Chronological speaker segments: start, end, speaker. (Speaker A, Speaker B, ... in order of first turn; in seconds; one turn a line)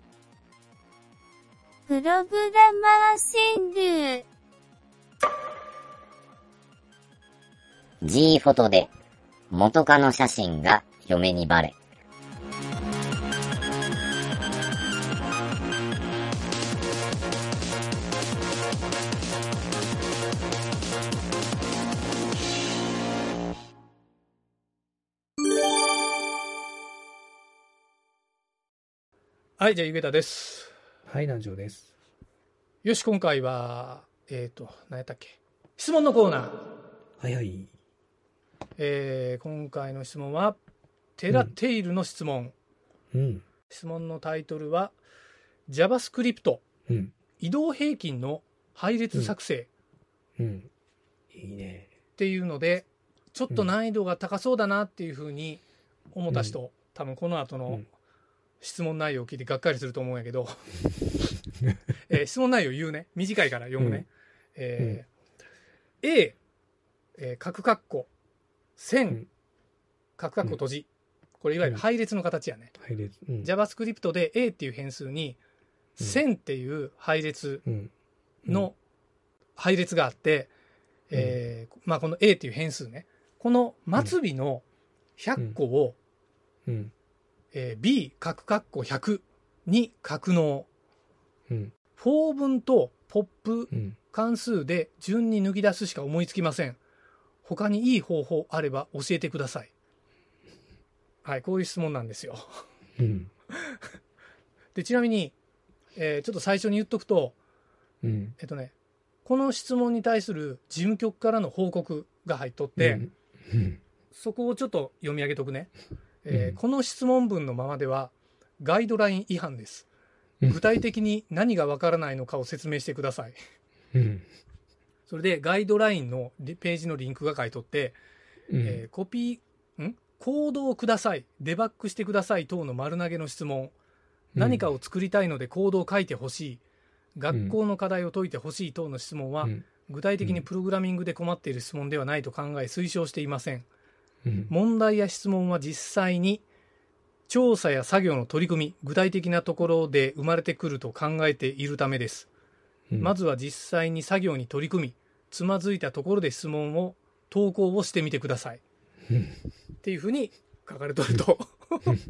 Speaker A: 1.9-4.3
Speaker B: 8.0-8.9
Speaker B: 9.5-11.8
Speaker C: 29.6-30.7
Speaker D: 31.1-31.9
Speaker C: 32.8-36.7
Speaker D: 37.2-37.7
Speaker C: 38.8-40.6
Speaker C: 41.2-42.5
Speaker D: 43.1-43.5
Speaker C: 43.7-45.0
Speaker C: 45.7-46.6
Speaker D: 46.9-47.1
Speaker C: 47.4-49.7
Speaker D: 50.4-50.7
Speaker D: 51.3-51.9
Speaker C: 52.2-57.9
Speaker D: 56.3-56.6
Speaker C: 58.6-60.7
Speaker C: 62.1-65.1
Speaker D: 63.8-64.0
Speaker C: 66.0-66.4
Speaker C: 67.2-68.1
Speaker C: 68.8-69.3
Speaker C: 70.2-70.9
Speaker C: 71.4-72.7
Speaker D: 72.8-73.5
Speaker C: 73.4-75.4
Speaker C: 76.0-77.6
Speaker D: 77.7-77.9
Speaker C: 78.5-78.8
Speaker C: 79.6-80.5
Speaker C: 81.1-84.6
Speaker C: 85.2-86.0
Speaker D: 86.7-86.9
Speaker C: 87.5-90.7
Speaker D: 91.5-91.7
Speaker C: 92.0-96.8
Speaker D: 93.7-94.0
Speaker C: 97.4-99.7
Speaker C: 101.2-102.6
Speaker D: 103.0-103.3
Speaker C: 104.7-105.4
Speaker C: 106.0-107.4
Speaker D: 108.0-108.4
Speaker C: 108.4-113.0
Speaker D: 112.8-113.8
Speaker C: 114.1-115.7
Speaker C: 116.2-119.9
Speaker D: 116.3-116.6
Speaker C: 120.4-123.4
Speaker D: 123.9-124.3
Speaker C: 125.1-128.0
Speaker D: 128.5-128.8
Speaker C: 128.6-133.7
Speaker D: 134.3-134.7
Speaker C: 134.4-136.6
Speaker C: 137.2-143.7
Speaker D: 137.3-137.6
Speaker D: 144.2-144.5
Speaker C: 144.5-146.4
Speaker C: 147.3-152.3
Speaker C: 153.0-158.6
Speaker C: 159.8-162.0